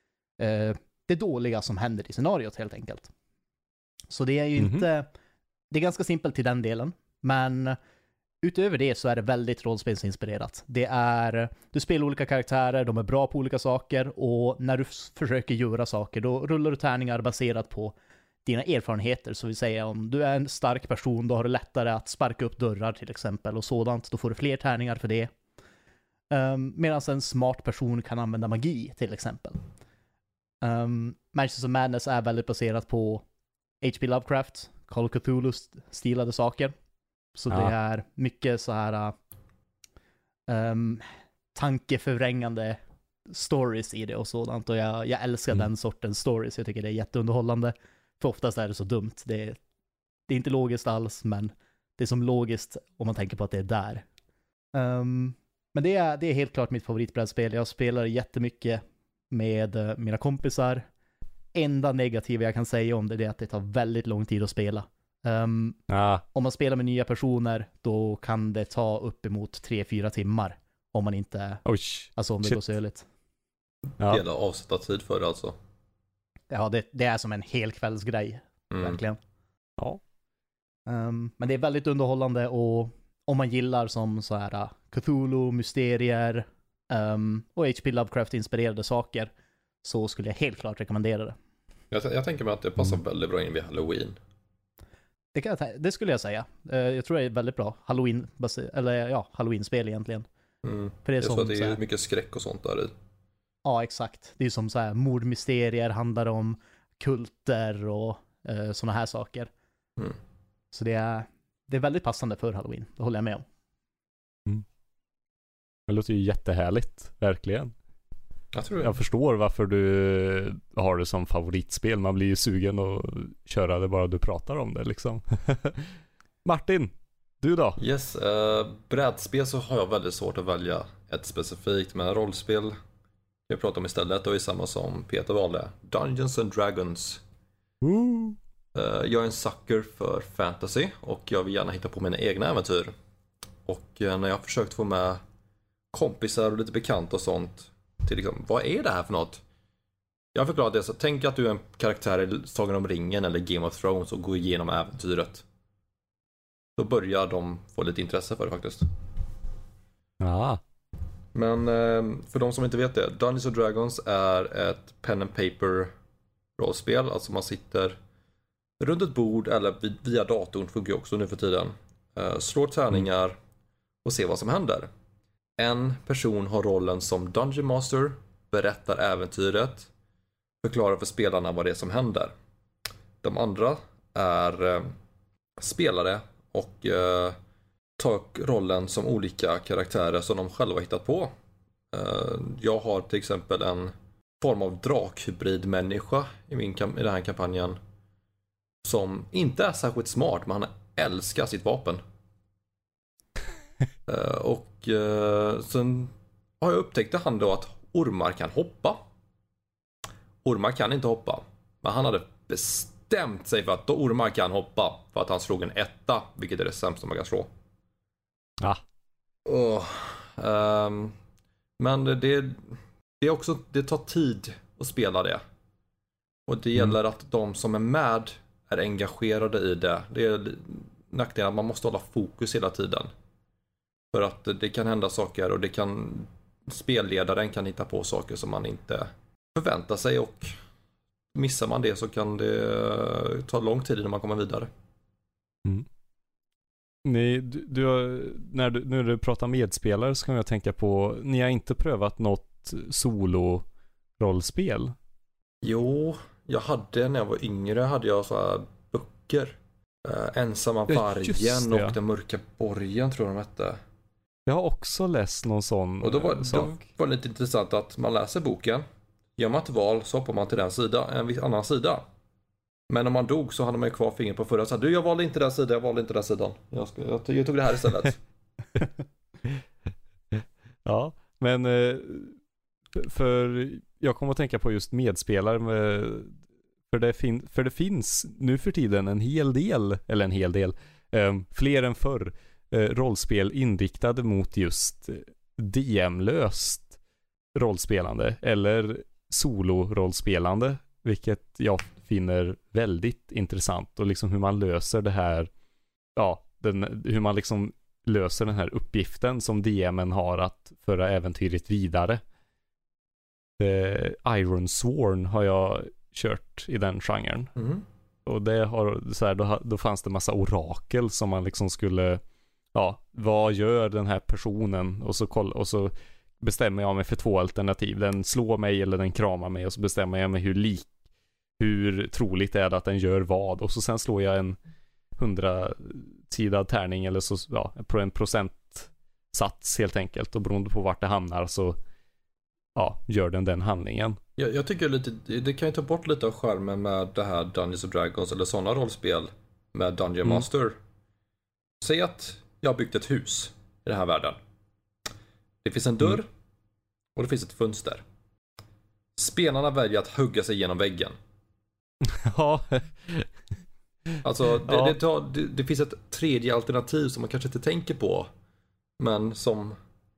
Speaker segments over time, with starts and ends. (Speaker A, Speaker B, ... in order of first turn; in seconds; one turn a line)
Speaker A: 0.4-3.1
Speaker A: 4.1-5.1
Speaker B: 4.6-4.9
Speaker A: 5.7-7.8
Speaker A: 8.4-25.3
Speaker A: 26.3-29.6
Speaker A: 30.6-33.2
Speaker A: 33.8-36.7
Speaker A: 37.3-39.1
Speaker A: 40.5-49.6
Speaker A: 50.3-54.0
Speaker A: 54.7-60.9
Speaker A: 61.5-65.8
Speaker B: 65.9-66.2
Speaker A: 66.3-71.6
Speaker B: 71.7-72.6
Speaker A: 72.1-73.0
Speaker C: 74.0-75.5
Speaker A: 76.5-79.2
Speaker C: 78.7-79.0
Speaker A: 80.9-89.3
Speaker A: 89.8-91.4
Speaker C: 91.9-94.2
Speaker A: 95.3-100.3
Speaker C: 100.6-102.9
Speaker A: 101.0-101.8
Speaker A: 103.6-109.5
Speaker A: 110.7-113.4
Speaker B: 115.9-117.7
Speaker C: 118.5-118.9
Speaker B: 118.8-125.9
Speaker B: 126.4-127.8
Speaker C: 127.8-132.8
Speaker C: 133.5-137.2
Speaker B: 137.8-138.4
Speaker C: 138.7-142.9
Speaker C: 143.7-145.2
Speaker C: 145.9-149.4
Speaker C: 150.3-155.4
Speaker C: 156.8-158.9
Speaker B: 160.2-160.6
Speaker C: 161.3-165.9
Speaker C: 166.6-168.0
Speaker C: 168.8-173.4
Speaker C: 174.0-174.9
Speaker C: 175.6-179.9
Speaker C: 180.6-182.3
Speaker C: 183.2-184.9
Speaker C: 185.6-187.4
Speaker C: 188.0-191.3
Speaker C: 191.9-197.8
Speaker C: 198.8-202.0
Speaker C: 204.1-209.0
Speaker C: 210.4-217.5
Speaker C: 219.4-221.1
Speaker C: 221.8-225.4
Speaker C: 226.5-233.1
Speaker C: 234.1-240.5
Speaker C: 241.3-244.7
Speaker B: 247.0-253.7
Speaker B: 254.2-254.9
Speaker C: 255.6-263.8
Speaker B: 260.9-261.9
Speaker B: 264.4-266.8
Speaker C: 266.0-268.8
Speaker C: 269.4-272.1
Speaker C: 272.9-278.2
Speaker B: 280.3-282.4
Speaker B: 282.9-286.3
Speaker B: 286.9-296.9
Speaker B: 297.5-305.5
Speaker B: 306.1-312.2
Speaker B: 313.6-317.5
Speaker C: 317.6-317.8
Speaker B: 318.2-322.2
Speaker B: 322.7-330.9
Speaker B: 331.6-334.6
Speaker B: 335.2-341.8
Speaker B: 342.7-344.2
Speaker C: 344.4-350.8
Speaker C: 351.8-354.4
Speaker C: 355.6-356.3
Speaker C: 357.1-358.0
Speaker C: 359.1-361.1
Speaker B: 362.0-363.3
Speaker B: 364.1-365.0
Speaker C: 364.2-368.3
Speaker C: 369.0-369.8